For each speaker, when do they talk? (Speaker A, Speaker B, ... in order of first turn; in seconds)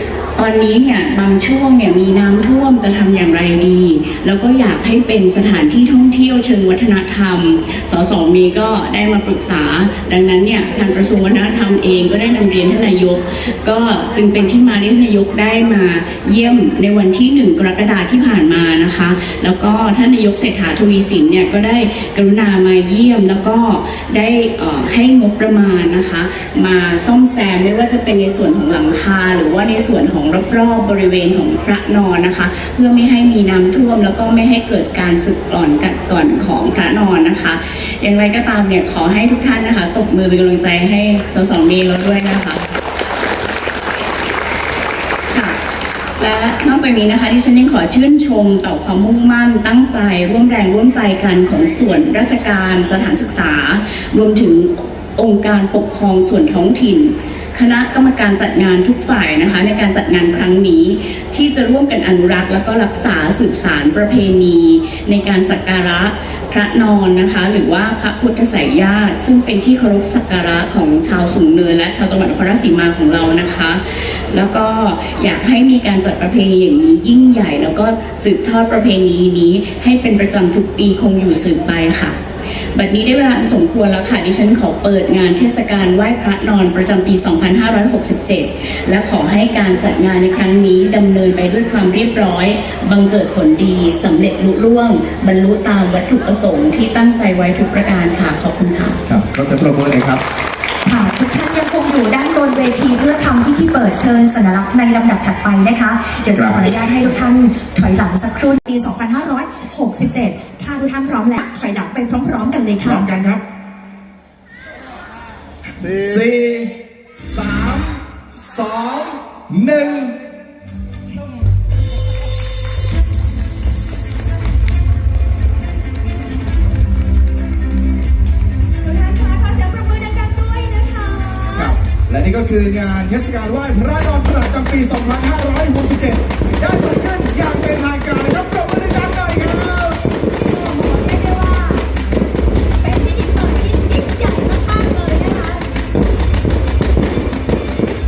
Speaker A: 0.3-42.6, 45.3-45.6, 46.2-82.2, 82.7-99.0
Speaker B: 99.1-100.2, 106.3-106.7, 112.8-113.4, 115.9-116.7, 117.3-120.2, 131.5-140.0
Speaker C: 100.8-113.0, 128.8-131.7, 140.3-141.8, 142.8-145.6